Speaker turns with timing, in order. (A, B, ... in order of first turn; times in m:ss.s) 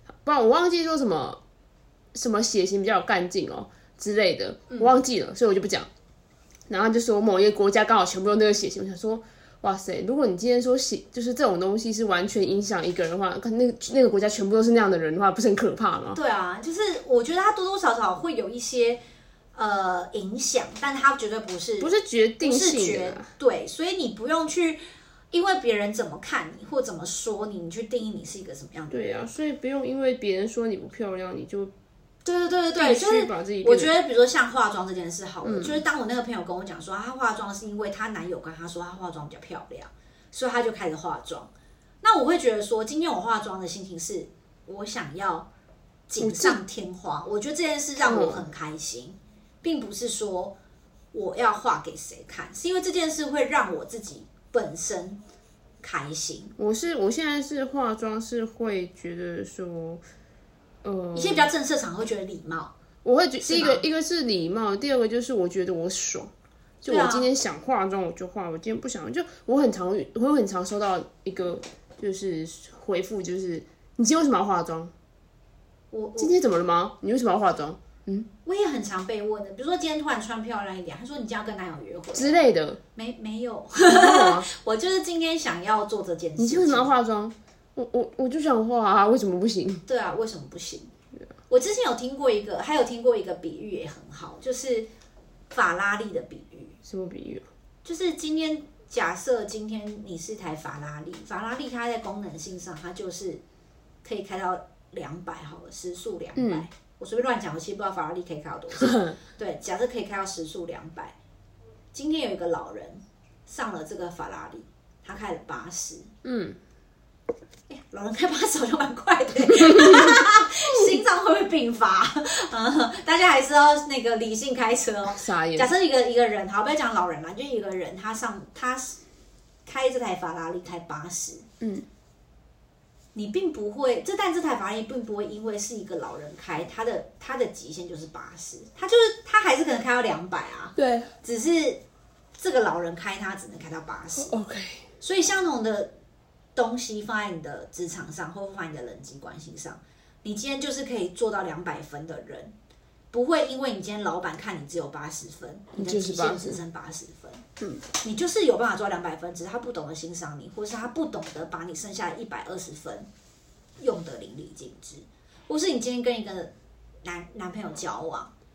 0:00.2-0:01.4 A
0:02.1-0:05.9 A
0:04.7-0:05.0 B
0:06.7-0:16.2 A
0:16.1-0:19.0 B
0:19.6-0:24.8 B
0:21.8-0:23.3 A
0:25.3-0:29.3 B
0:28.9-0:31.7 A
0:32.2-0:41.5 B
0:32.8-0:33.9 A
0:35.4-0:35.8 A
0:42.0-0:45.5 B
0:46.1-0:50.6 B
0:46.2-0:46.6 A
0:48.0-0:48.5 A
0:51.1-0:55.2 B
0:55.8-0:56.6 B
0:56.6-1:00.0 A
1:00.8-1:01.5 A
1:01.1-1:02.7 B
1:03.0-1:06.3 A
1:03.4-1:03.8 B
1:06.8-1:14.9 A
1:06.9-1:07.3 B
1:15.9-1:16.4 B
1:16.2-1:18.3 A
1:18.4-1:22.4 B
1:22.1-1:22.8 A
1:23.0-1:26.9 B
1:23.8-1:24.5 A
1:26.4-1:29.8 A
1:29.9-1:30.9 B
1:31.5-1:34.9 B
1:35.5-1:36.8 B
1:36.8-1:37.5 A
1:37.8-1:43.4 B
1:44.0-1:51.2 B
1:46.4-1:46.7 A
1:48.8-1:49.2 A
1:51.9-1:56.1 B
1:56.2-1:56.6 A
1:57.7-2:09.0 B
1:59.5-2:00.2 A
2:05.1-2:05.7 A
2:09.7-2:11.5 B
2:11.6-2:11.9 A
2:13.2-2:21.8 B
2:20.8-2:21.1 A
2:22.4-2:24.4 B
2:24.2-2:24.8 A
2:25.0-2:25.9 B
2:26.6-2:32.5 B
2:33.1-2:37.4 B
2:35.8-2:36.6 A
2:38.0-2:43.1 B
2:43.8-2:46.5 B
2:47.0-2:48.3 B